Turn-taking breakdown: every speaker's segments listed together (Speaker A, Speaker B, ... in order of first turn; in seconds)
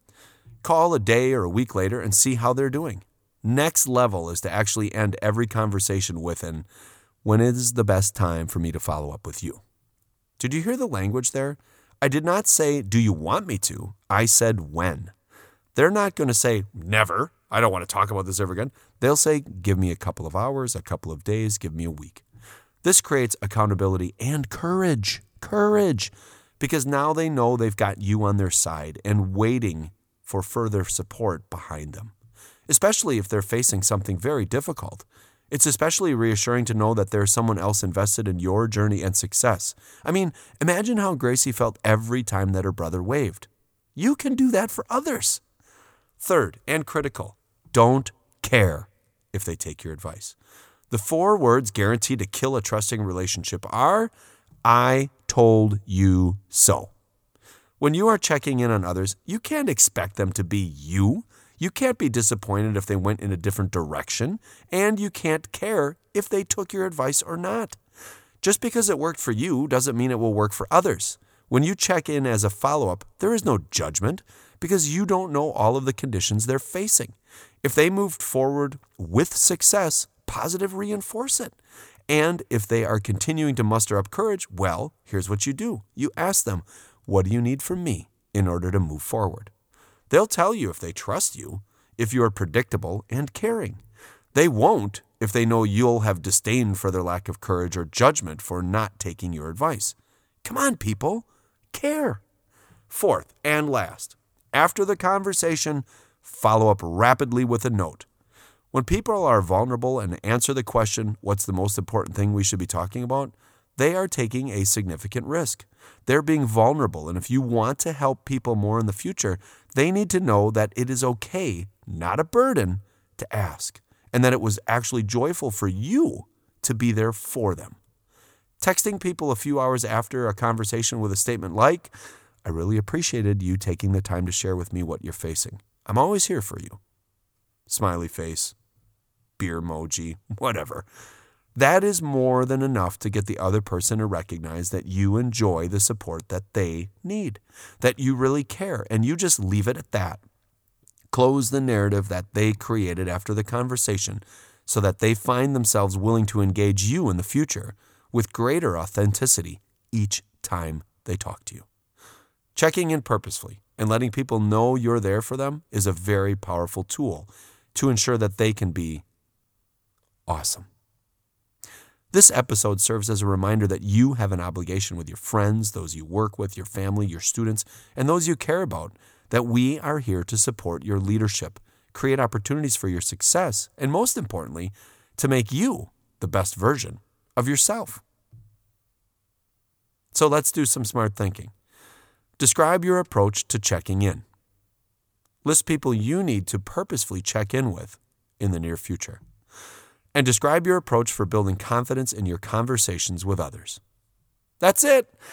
Speaker A: 0.6-6.7, 7.2-9.6, 10.4-15.1, 15.7-22.2, 22.8-32.1, 32.7-45.4, 46.2-50.4, 50.9-54.1, 54.6-56.9, 57.8-67.8, 68.4-81.5, 82.1-89.5, 90.1-93.8, 94.3-102.2, 102.9-108.1, 108.7-127.8, 128.6-131.9, 132.4-136.8, 137.7-138.5, 139.4-140.9, 141.5-150.2, 151.1-161.7, 162.5-169.0, 170.3-170.7, 172.1-188.0, 190.1-191.5, 192.4-194.2, 195.4-199.2, 200.1-203.8, 204.6-205.1